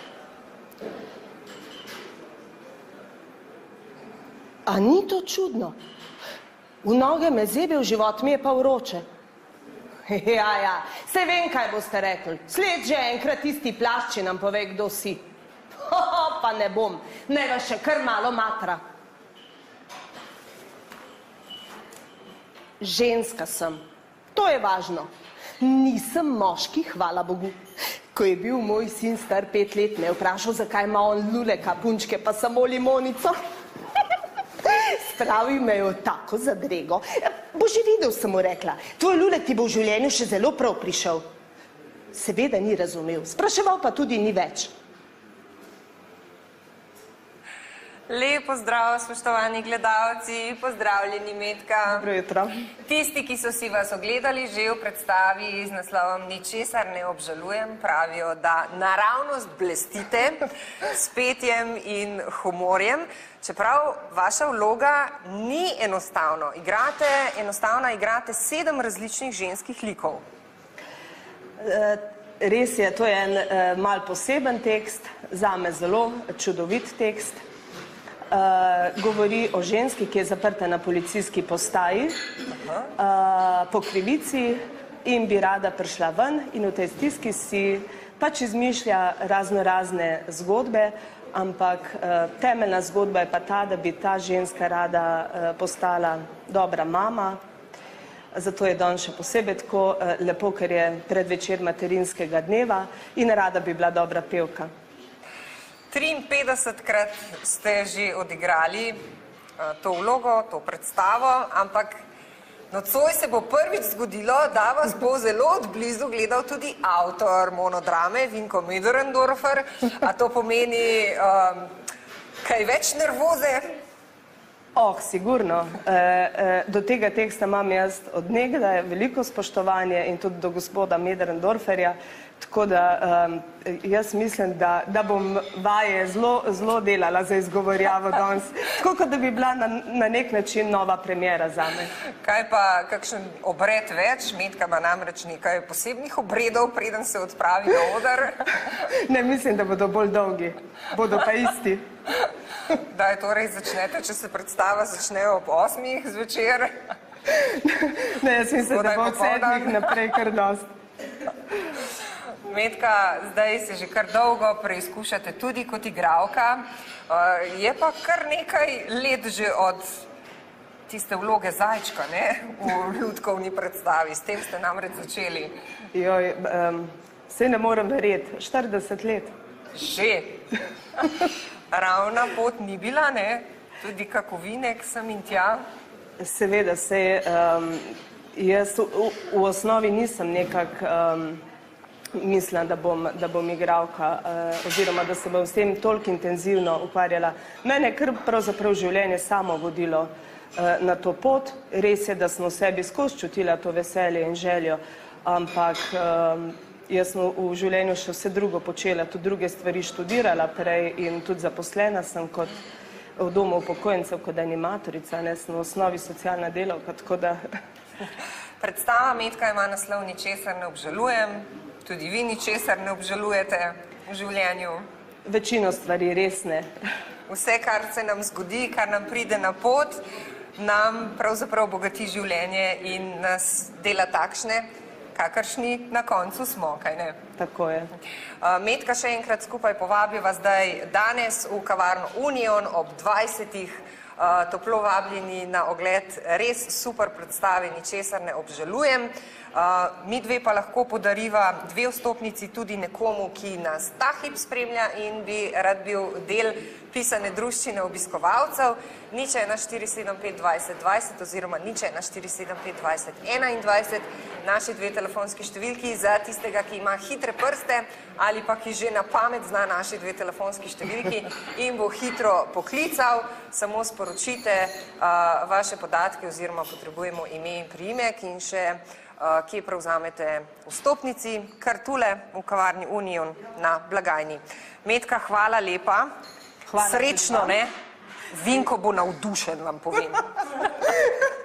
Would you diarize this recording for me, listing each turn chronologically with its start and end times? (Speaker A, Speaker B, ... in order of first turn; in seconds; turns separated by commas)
Speaker A: 4.7-5.8, Speaker A: 6.8-9.0, Speaker A: 10.1-15.2, Speaker A: 15.8-18.8, Speaker A: 22.8-23.8, Speaker A: 24.3-27.6, Speaker A: 28.1-33.4, Speaker A: 34.6-41.3, Speaker A: 42.1-44.7, Speaker B: 48.1-52.0, Speaker A: 51.9-52.5, Speaker B: 52.9-70.2, Speaker A: 71.6-77.4, Speaker A: 78.3-82.1, Speaker A: 83.0-97.4, Speaker A: 98.3-104.7, Speaker B: 105.9-109.0, Speaker B: 109.6-112.0, Speaker B: 112.7-121.7, Speaker B: 122.4-123.7, Speaker A: 124.7-141.9, Speaker B: 142.2-148.5, Speaker A: 149.0-151.8, Speaker B: 152.9-156.7, Speaker A: 157.3-160.7, Speaker B: 158.7-159.9, Speaker B: 162.4-170.0, Speaker B: 170.9-175.5, Speaker A: 175.9-179.3, Speaker B: 179.7-180.4, Speaker B: 181.7-185.6, Speaker A: 186.2-191.4, Speaker A: 192.1-212.6, Speaker A: 213.2-217.4, Speaker B: 218.6-224.8, Speaker A: 225.2-226.7, Speaker B: 227.3-230.0, Speaker B: 230.6-237.2, Speaker A: 237.4-237.9, Speaker B: 238.4-286.1, Speaker A: 286.7-287.6, Speaker B: 286.8-287.7, Speaker B: 288.3-290.4